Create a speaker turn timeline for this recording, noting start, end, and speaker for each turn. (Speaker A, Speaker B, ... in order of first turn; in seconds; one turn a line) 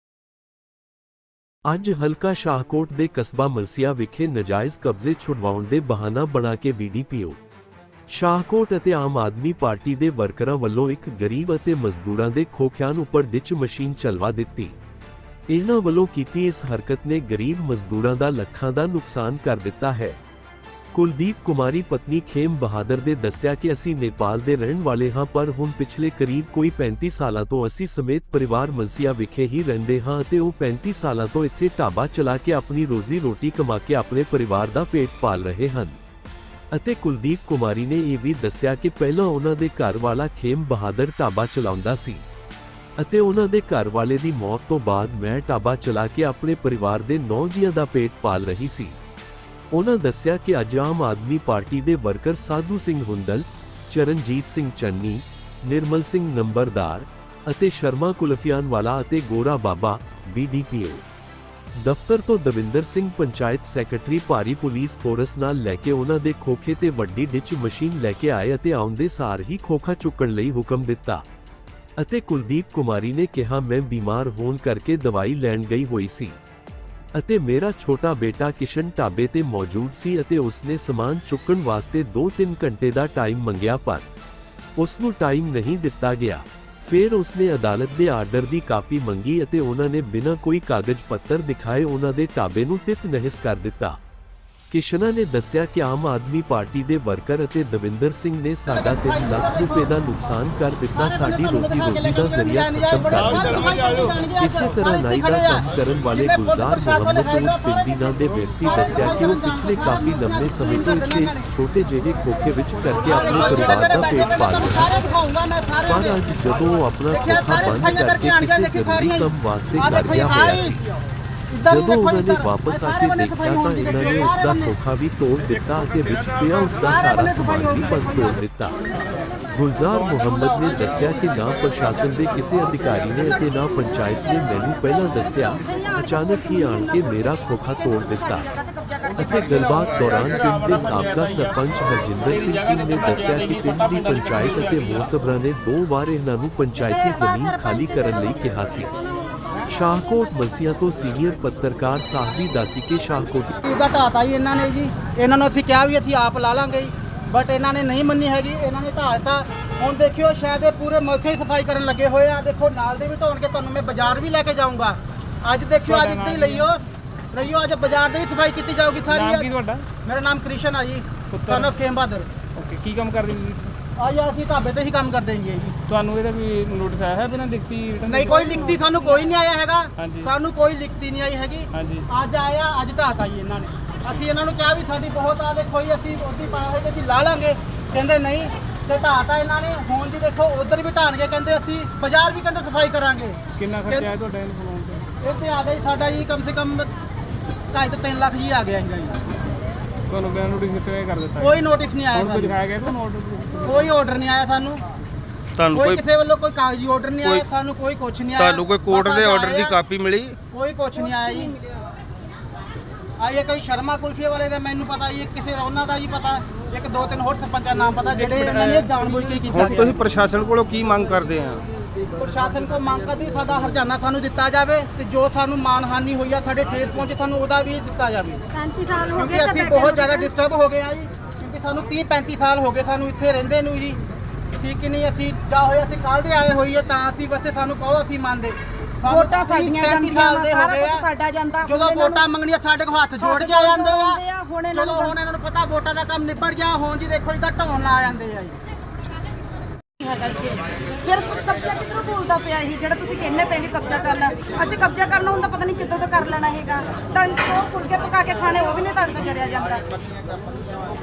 Speaker A: 1.7-7.4
Speaker A: 8.1-14.8
Speaker A: 15.5-20.2
Speaker A: 20.9-36.0
Speaker A: 36.7-42.2
Speaker A: 43.0-49.0
Speaker A: 49.7-61.0
Speaker A: 61.8-71.2
Speaker A: 72.0-76.3
Speaker A: 77.1-84.1
Speaker A: 84.8-94.0
Speaker A: 94.7-103.8
Speaker B: 98.9-99.9
Speaker B: 100.9-108.0
Speaker A: 104.4-115.0
Speaker B: 108.6-111.5
Speaker B: 113.0-116.2
Speaker A: 115.8-120.8
Speaker B: 117.1-120.8
Speaker B: 121.5-124.8
Speaker A: 121.7-128.8
Speaker B: 126.8-128.4
Speaker A: 129.5-138.5
Speaker C: 132.6-139.8
Speaker A: 139.2-148.9
Speaker C: 146.7-149.4
Speaker A: 149.7-153.6
Speaker B: 153.6-169.5
Speaker D: 165.9-166.7
Speaker D: 169.1-169.8
Speaker B: 170.0-172.3
Speaker D: 171.3-171.7
Speaker D: 172.6-173.7
Speaker B: 174.0-175.8
Speaker D: 175.9-178.8
Speaker B: 178.1-194.1
Speaker D: 180.0-180.3
Speaker D: 181.7-182.1
Speaker D: 193.6-195.1
Speaker B: 195.2-196.9
Speaker B: 197.7-199.2
Speaker D: 200.1-201.6
Speaker B: 201.4-202.6
Speaker D: 202.1-203.9
Speaker B: 203.6-204.8
Speaker E: 205.6-206.0
Speaker B: 205.7-209.8
Speaker E: 208.3-210.4
Speaker B: 210.5-211.6
Speaker B: 213.2-220.0
Speaker D: 218.2-218.8
Speaker E: 219.5-221.7
Speaker B: 222.2-228.4
Speaker C: 228.5-230.3
Speaker B: 229.1-234.0
Speaker B: 234.6-241.1
Speaker C: 239.0-242.2
Speaker B: 241.6-248.6
Speaker C: 243.2-245.2
Speaker C: 250.0-259.8